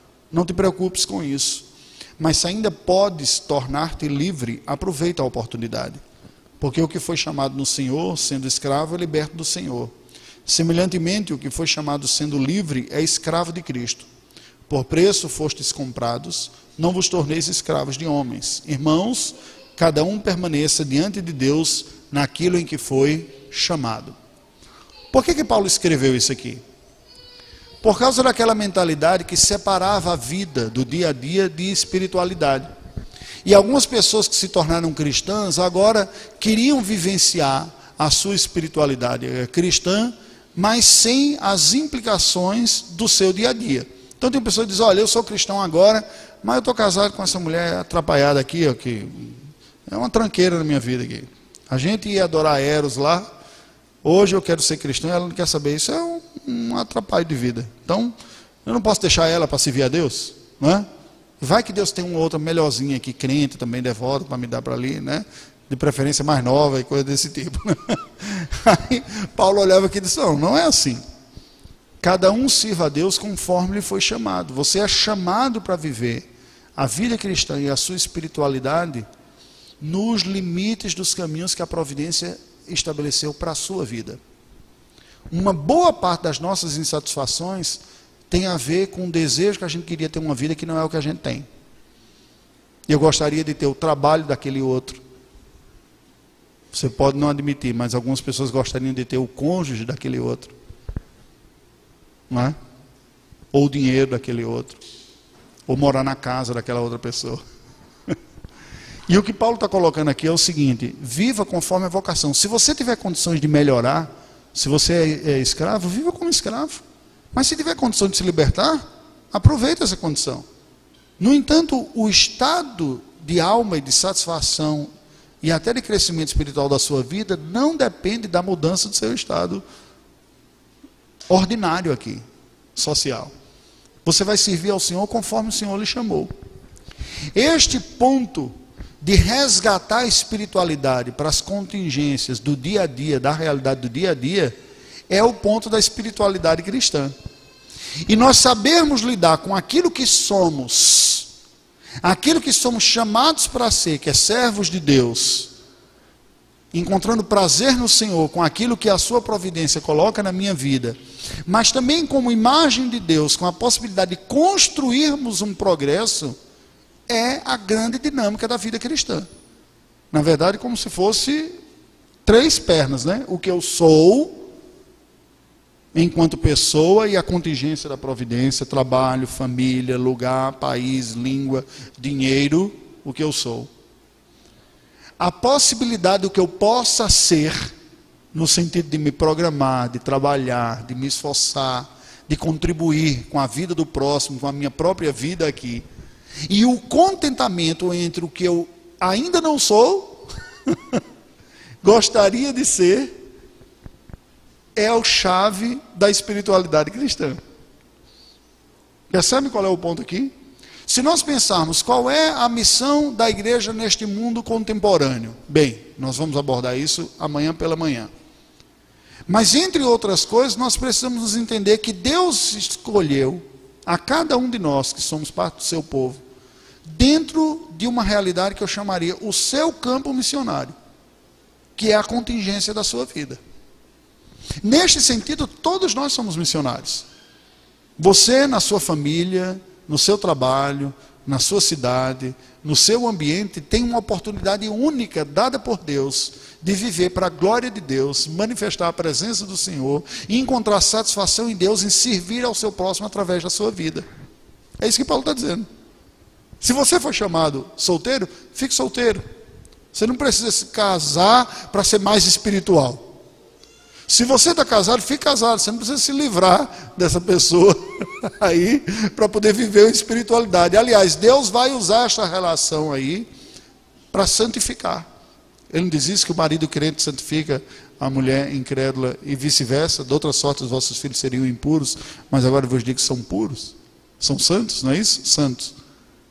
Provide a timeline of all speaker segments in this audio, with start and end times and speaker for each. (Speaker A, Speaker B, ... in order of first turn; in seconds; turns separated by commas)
Speaker A: 0.3-1.6, Speaker A: 2.2-6.0, Speaker A: 6.6-9.9, Speaker A: 10.5-14.1, Speaker A: 14.7-24.1, Speaker A: 25.1-26.6, Speaker A: 27.8-32.7, Speaker A: 33.4-53.3, Speaker A: 54.0-58.1, Speaker A: 58.7-60.9, Speaker A: 61.4-71.0, Speaker A: 72.0-76.3, Speaker A: 76.8-79.1, Speaker A: 79.8-84.2, Speaker A: 85.3-91.5, Speaker A: 92.9-95.0, Speaker A: 96.7-100.5, Speaker A: 102.3-102.6, Speaker A: 103.5-104.8, Speaker A: 105.7-107.4, Speaker A: 109.1-116.8, Speaker A: 117.3-120.5, Speaker A: 121.2-124.9, Speaker A: 125.4-129.6, Speaker A: 131.3-132.2, Speaker A: 132.8-133.3, Speaker A: 134.0-136.3, Speaker A: 137.3-144.5, Speaker A: 145.1-147.1, Speaker A: 148.1-151.3, Speaker A: 152.0-155.5, Speaker A: 156.7-166.4, Speaker A: 167.1-169.3, Speaker A: 170.1-171.6, Speaker A: 172.3-174.4, Speaker A: 175.9-183.7, Speaker A: 185.2-187.7, Speaker A: 188.3-195.8, Speaker A: 196.5-201.0, Speaker A: 201.8-203.1, Speaker A: 204.8-207.4, Speaker A: 209.1-210.3, Speaker A: 210.9-218.1, Speaker A: 219.3-226.2, Speaker A: 226.9-230.7, Speaker A: 231.8-233.4, Speaker A: 234.6-237.1, Speaker A: 238.0-254.1, Speaker A: 254.8-255.7, Speaker A: 256.6-259.2, Speaker A: 259.9-263.1, Speaker A: 264.1-273.3, Speaker A: 274.1-275.1, Speaker A: 275.7-285.7